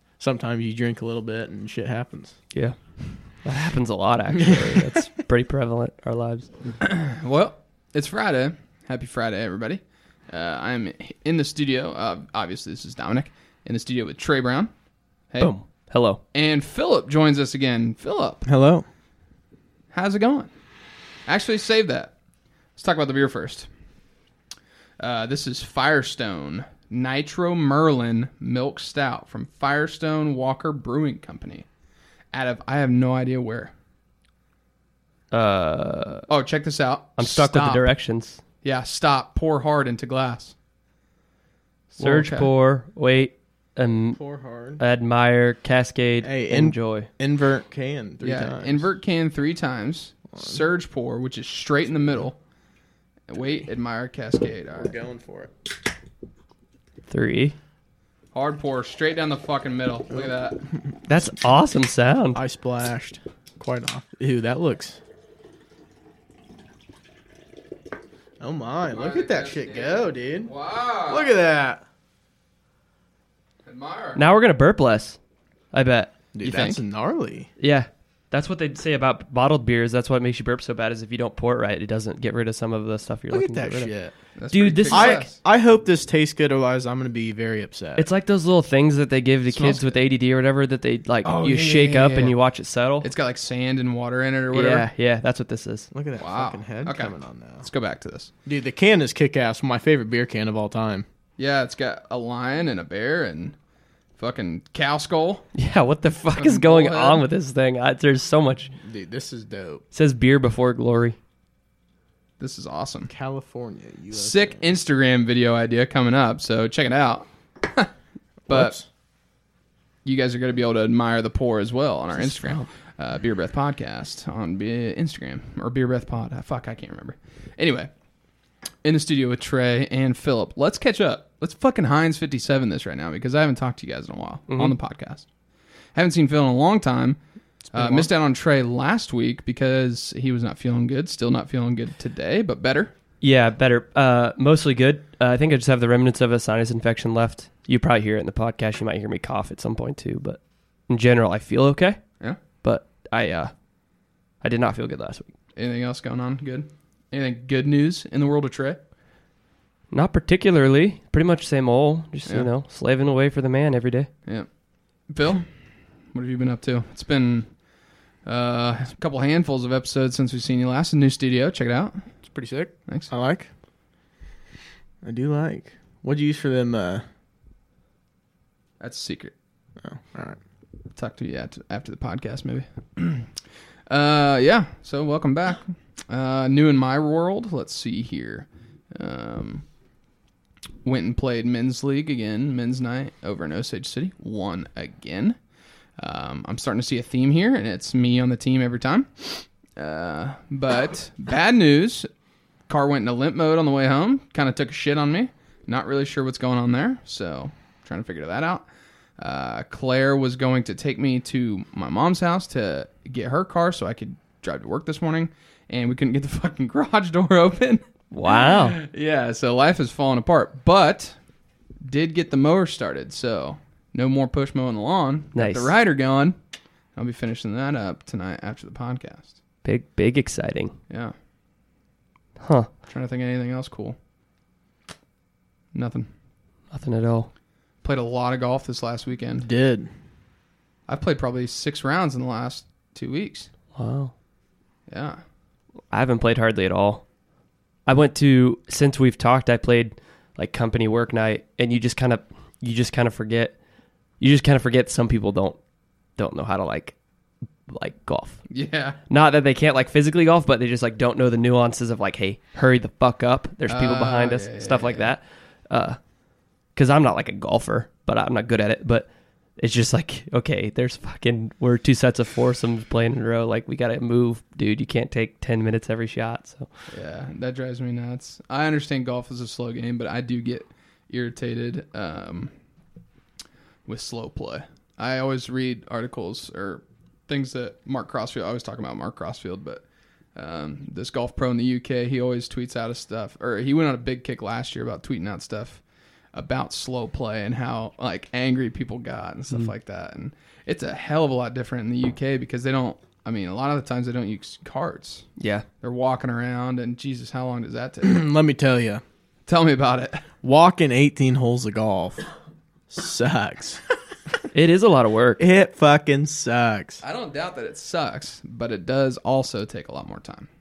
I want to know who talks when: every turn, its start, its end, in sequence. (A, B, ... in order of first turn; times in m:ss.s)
0:00.2-0:02.4 A
0:02.5-0:06.5 B
0:04.4-0:05.0 A
0:06.8-0:14.7 C
0:15.4-0:16.2 B
0:16.3-0:18.4 C
0:18.4-0:18.8 A
0:19.9-0:20.5 C
0:21.2-0:22.1 C
0:22.8-0:23.7 C
0:25.0-0:31.7 C
0:32.3-0:33.7 C
0:35.3-0:36.2 B
0:36.3-0:37.8 C
0:37.2-0:38.4 B
0:38.6-0:40.5 C
0:41.9-0:44.2 B
0:42.0-0:42.5 C
0:44.1-0:44.8 A
0:44.8-0:47.1 B
0:46.2-0:48.8 A
0:48.2-0:52.4 C
0:50.3-0:50.6 A
0:53.3-0:54.9 C
0:54.8-0:55.5 A
0:57.1-0:57.6 B
0:58.3-1:00.6 C
1:01.1-1:02.4 B
1:02.3-1:05.0 A
1:08.4-1:11.8 A
1:08.9-1:11.3 C
1:13.6-1:14.2 C
1:14.2-1:15.2 B
1:15.7-1:16.3 B
1:16.3-1:17.5 A
1:16.4-1:16.8 C
1:17.6-1:23.9 B
1:23.3-1:24.1 A
1:24.4-1:25.4 C
1:24.5-1:25.2 B
1:24.9-1:28.1 A
1:28.0-1:33.1 B
1:29.5-1:29.9 C
1:31.2-1:32.3 C
1:33.0-1:34.9 C
1:34.5-1:35.9 B
1:35.9-1:37.6 A
1:36.2-1:38.3 C
1:38.4-1:41.0 A
1:41.4-1:43.6 C
1:44.2-1:45.4 C
1:45.5-1:48.7 B
1:46.4-1:47.2 C
1:48.8-1:49.8 A
1:49.9-1:51.2 B
1:52.4-1:53.1 C
1:53.1-1:54.7 A
1:54.1-1:57.9 C
1:58.5-1:58.8 A
1:58.5-1:58.7 C
2:00.0-2:07.9 C
2:02.2-2:02.6 B
2:08.8-2:15.3 C
2:14.5-2:14.7 B
2:15.9-2:17.2 C
2:17.7-2:18.1 A
2:17.7-2:22.9 C
2:23.2-2:32.1 B
2:32.6-2:33.5 B
2:34.4-2:35.3 B
2:35.6-2:38.8 C
2:39.9-2:44.1 B
2:45.1-2:45.5 C
2:46.1-2:47.5 C
2:48.2-2:52.1 C
2:52.2-2:53.5 A
2:55.0-2:57.0 A
2:58.8-2:59.3 C
2:59.8-3:00.4 A
3:00.9-3:03.3 C
3:03.9-3:09.6 C
3:10.8-3:15.4 C
3:16.0-3:22.1 C
3:22.7-3:28.6 C
3:29.2-3:41.2 C
3:38.1-3:38.8 B
3:41.8-3:46.4 C
3:45.3-3:45.7 B
3:46.9-3:49.3 C
3:49.6-3:50.7 B
3:52.4-3:52.7 B
3:52.9-3:54.0 C
3:55.7-3:56.1 C
3:56.7-3:57.3 B
3:57.8-3:59.5 C
3:59.4-3:59.9 A
4:00.9-4:03.5 C
4:03.7-4:04.1 B
4:04.9-4:05.2 C
4:05.9-4:07.0 B
4:07.8-4:13.6 B
4:14.2-4:15.6 B
4:16.2-4:16.9 B
4:17.7-4:18.4 B
4:18.5-4:19.0 C
4:19.1-4:26.0 B
4:23.7-4:25.1 C
4:26.7-4:36.7 B
4:36.9-4:42.5 C
4:43.8-4:49.8 C
4:50.3-4:55.8 C
4:56.3-5:05.3 C
5:05.4-5:05.6 B
5:05.8-5:08.2 C
5:08.0-5:09.0 A
5:09.5-5:10.3 C
5:10.4-5:12.2 A
5:12.9-5:13.8 A
5:14.5-5:15.4 B
5:15.4-5:17.0 A
5:17.0-5:20.5 C